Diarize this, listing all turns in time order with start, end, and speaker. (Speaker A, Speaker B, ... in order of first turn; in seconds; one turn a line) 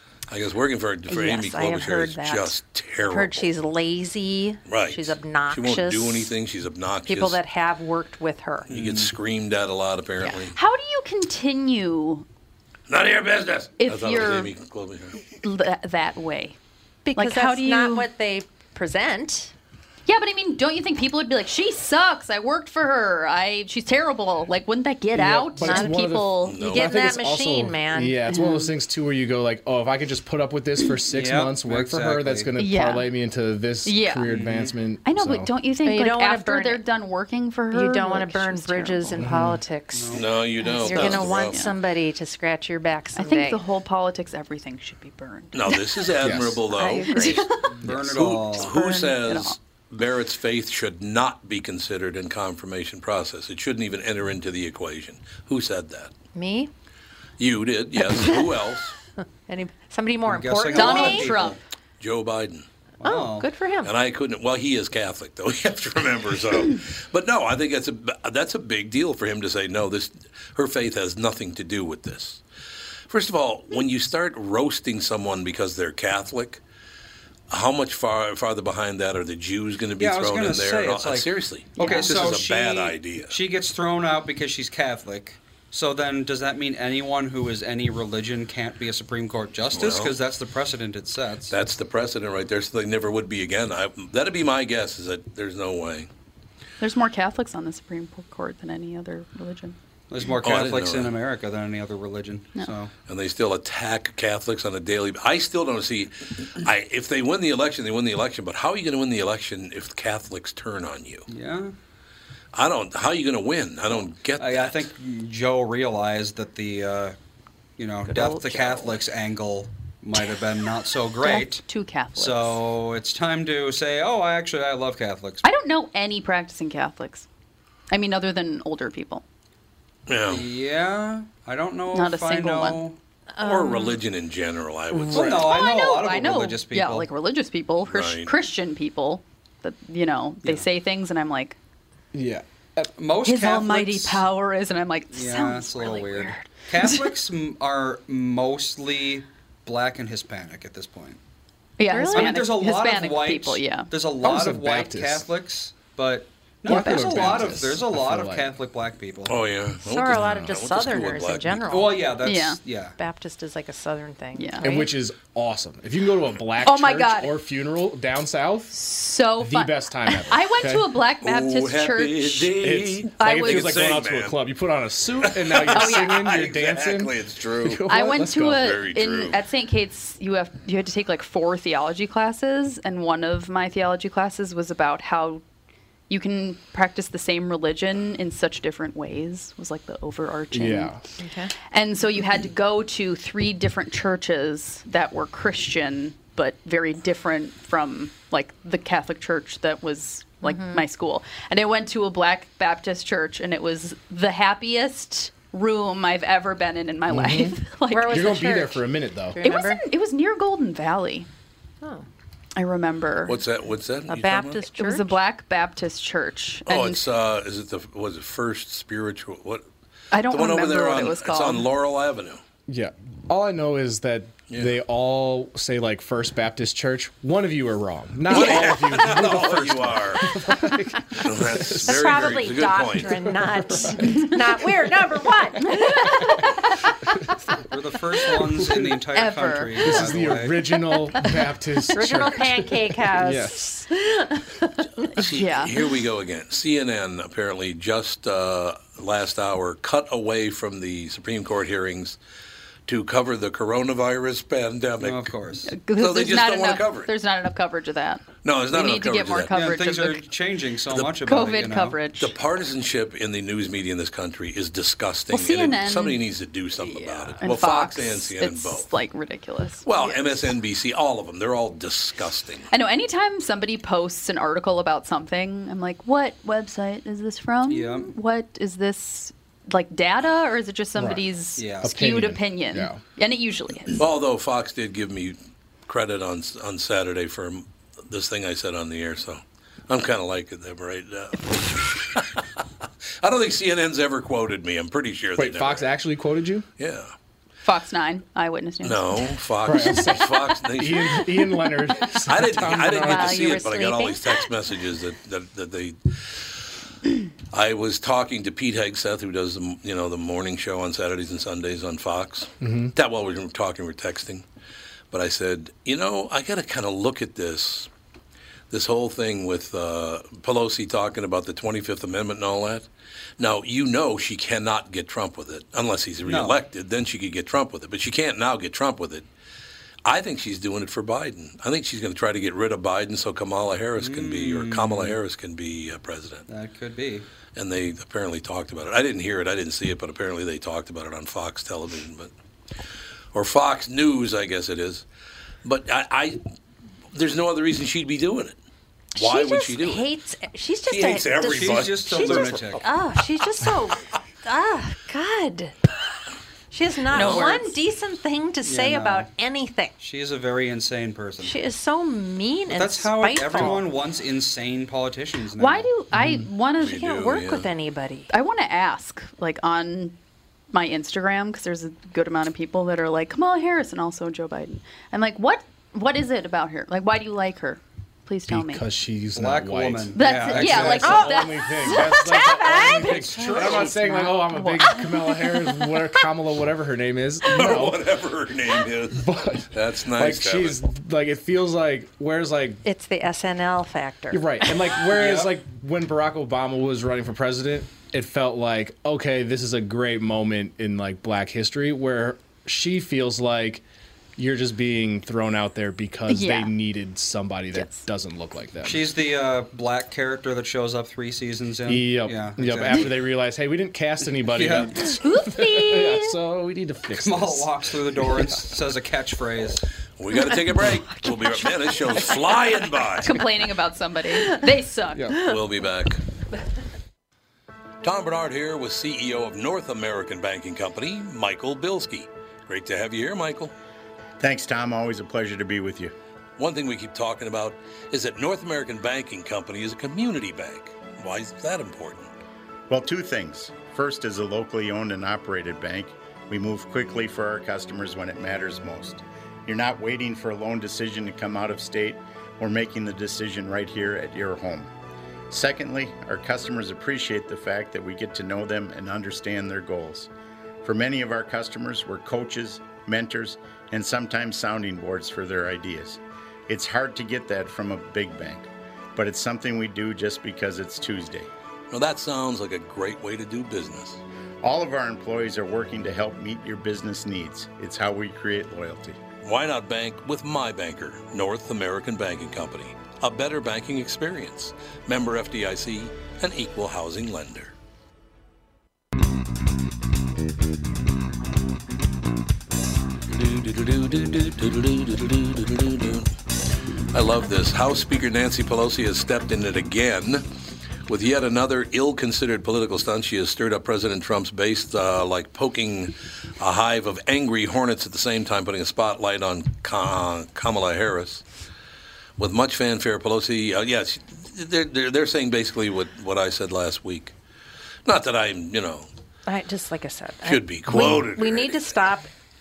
Speaker A: 0.3-3.5
Speaker B: 1.1-2.4
Speaker B: 3.0-6.3
Speaker A: 4.7-7.4
Speaker B: 7.1-8.7
Speaker C: 8.7-9.1
Speaker A: 8.7-10.5
Speaker D: 10.2-12.2
Speaker A: 12.9-15.2
Speaker D: 13.8-14.5
Speaker D: 15.4-16.6
Speaker B: 17.1-19.5
Speaker D: 17.1-18.1
Speaker D: 20.1-26.8
Speaker E: 25.1-35.5
Speaker B: 25.6-28.2
Speaker A: 26.4-26.9
Speaker D: 28.3-28.7
Speaker C: 31.1-32.5
Speaker D: 32.5-33.1
Speaker D: 33.8-34.3
Speaker C: 34.3-34.7
Speaker D: 35.0-39.2
Speaker B: 35.8-36.8
Speaker B: 37.7-43.6
Speaker E: 39.2-39.6
Speaker C: 39.9-40.3
Speaker A: 40.1-41.6
Speaker D: 40.6-41.7
Speaker D: 43.1-46.2
Speaker A: 45.5-56.1
Speaker E: 46.2-46.6
Speaker B: 46.7-47.5
Speaker D: 47.0-47.7
Speaker C: 47.7-48.7
Speaker D: 48.5-49.6
Speaker B: 56.3-56.7
Speaker A: 57.4-58.9
Speaker B: 59.5-61.3
Speaker C: 60.2-61.6
Speaker D: 60.7-61.6
Speaker A: 62.0-62.7
Speaker C: 63.0-63.5
Speaker B: 63.0-63.9
Speaker A: 63.8-72.4
Speaker A: 73.1-76.6
Speaker A: 77.5-83.3
Speaker C: 80.0-91.5
Speaker D: 81.8-82.1
Speaker A: 89.7-90.2
Speaker A: 91.5-96.1
Speaker D: 96.8-99.8
Speaker C: 100.1-102.9
Speaker A: 100.4-101.1
Speaker A: 103.1-111.3
Speaker C: 111.3-111.7
Speaker A: 112.5-114.9
Speaker C: 114.0-117.2
Speaker C: 117.8-121.6
Speaker B: 118.1-118.9
Speaker D: 121.2-122.6
Speaker C: 122.2-125.4
Speaker D: 125.4-127.2
Speaker D: 127.9-129.2
Speaker A: 130.1-130.4
Speaker C: 130.3-132.9
Speaker D: 131.9-132.8
Speaker B: 133.3-134.0
Speaker A: 133.4-135.4
Speaker E: 134.9-135.5
Speaker C: 135.1-137.1
Speaker D: 135.3-141.6
Speaker A: 137.8-138.3
Speaker E: 142.1-142.9
Speaker C: 143.0-144.2
Speaker D: 143.2-147.1
Speaker C: 145.1-151.2
Speaker D: 151.8-153.9
Speaker B: 151.9-152.4
Speaker C: 152.1-159.4
Speaker E: 154.2-155.2
Speaker E: 156.7-158.5
Speaker D: 156.7-157.6
Speaker A: 159.3-161.6
Speaker B: 159.8-162.1
Speaker C: 161.7-162.9
Speaker D: 162.2-162.6
Speaker B: 163.0-164.9
Speaker D: 164.3-164.8
Speaker E: 164.6-168.7
Speaker D: 166.6-167.3
Speaker D: 168.7-173.9
Speaker E: 169.4-170.9
Speaker A: 171.2-174.4
Speaker E: 172.6-178.7
Speaker A: 175.2-179.4
Speaker D: 175.7-176.2
Speaker D: 177.9-185.4
Speaker D: 186.1-190.9
Speaker E: 190.5-191.0
Speaker B: 191.2-191.5
Speaker D: 191.7-208.6
Speaker B: 200.4-200.8
Speaker E: 207.1-209.4
Speaker B: 207.9-209.8
Speaker D: 209.4-211.3
Speaker D: 212.6-213.3
Speaker A: 213.2-214.6
Speaker B: 214.1-215.2
Speaker D: 214.7-217.0
Speaker A: 216.7-219.7
Speaker D: 220.1-221.7
Speaker A: 220.3-222.4
Speaker E: 222.7-232.3
Speaker A: 224.5-224.7
Speaker A: 228.3-230.3
Speaker A: 231.2-233.2
Speaker B: 231.8-236.5
Speaker E: 233.2-234.3
Speaker D: 235.7-236.5
Speaker E: 235.7-236.3
Speaker C: 237.7-240.7
Speaker E: 238.6-238.9
Speaker D: 239.1-239.9
Speaker E: 239.8-243.7
Speaker B: 241.9-244.4
Speaker A: 245.2-252.2
Speaker D: 245.2-245.8
Speaker A: 252.9-255.3
Speaker C: 255.0-255.7
Speaker D: 255.7-260.2
Speaker A: 256.0-257.1
Speaker A: 258.4-259.5
Speaker C: 259.5-262.0
Speaker D: 261.2-262.3
Speaker A: 262.2-268.9
Speaker D: 265.3-266.2
Speaker D: 266.8-270.5
Speaker A: 269.8-272.7
Speaker D: 272.7-284.0
Speaker C: 277.7-278.1
Speaker E: 281.0-281.2
Speaker C: 281.6-281.9
Speaker E: 281.8-283.0
Speaker A: 283.9-292.4
Speaker A: 293.2-295.9
Speaker E: 295.4-296.6
Speaker A: 296.8-297.1
Speaker D: 297.6-300.2
Speaker A: 298.8-301.2
Speaker E: 299.6-303.6
Speaker A: 302.2-306.6
Speaker B: 302.6-304.3
Speaker A: 307.5-314.4
Speaker E: 312.6-312.9
Speaker A: 315.1-317.9
Speaker A: 318.7-322.9
Speaker A: 323.4-329.3
Speaker C: 326.2-326.6
Speaker A: 330.0-336.4
Speaker C: 334.0-335.2
Speaker C: 336.5-337.2
Speaker A: 337.6-342.3
Speaker A: 343.3-345.0
Speaker A: 345.6-346.4
Speaker A: 347.1-348.6
Speaker B: 349.1-355.8
Speaker A: 349.2-350.1
Speaker A: 350.9-352.8
Speaker C: 351.4-352.8
Speaker B: 356.7-359.9
Speaker D: 357.1-357.7
Speaker C: 357.1-357.5
Speaker C: 358.6-359.3
Speaker C: 360.0-361.6
Speaker B: 361.4-363.9
Speaker C: 362.7-365.9
Speaker D: 365.6-367.1
Speaker E: 366.1-366.5
Speaker A: 366.8-367.7
Speaker B: 366.9-368.3
Speaker D: 368.3-370.1
Speaker D: 370.7-378.8
Speaker E: 378.5-388.0
Speaker C: 379.3-381.3
Speaker D: 380.1-386.0
Speaker B: 381.0-383.9
Speaker A: 387.5-390.8
Speaker E: 389.1-392.8
Speaker B: 392.8-394.7
Speaker E: 394.3-403.8
Speaker C: 395.2-395.5
Speaker E: 404.4-409.1
Speaker D: 406.3-406.7
Speaker D: 407.7-408.0
Speaker C: 408.8-413.1
Speaker E: 411.9-418.6
Speaker C: 414.5-415.1
Speaker D: 415.2-416.3
Speaker C: 417.1-419.8
Speaker A: 420.2-423.4
Speaker D: 420.5-422.6
Speaker D: 423.1-425.4
Speaker B: 424.3-424.7
Speaker E: 425.1-425.4
Speaker A: 425.4-426.2
Speaker A: 428.0-433.7
Speaker F: 434.4-436.1
Speaker A: 436.6-442.3
Speaker F: 442.9-454.9
Speaker F: 455.5-460.3
Speaker F: 460.8-471.5
Speaker A: 471.9-474.2
Speaker F: 474.6-479.2
Speaker A: 479.4-487.7
Speaker A: 493.3-496.3
Speaker A: 497.1-500.4
Speaker A: 501.1-511.4
Speaker A: 512.4-517.3
Speaker A: 518.0-519.1
Speaker B: 519.5-522.3
Speaker A: 520.4-522.0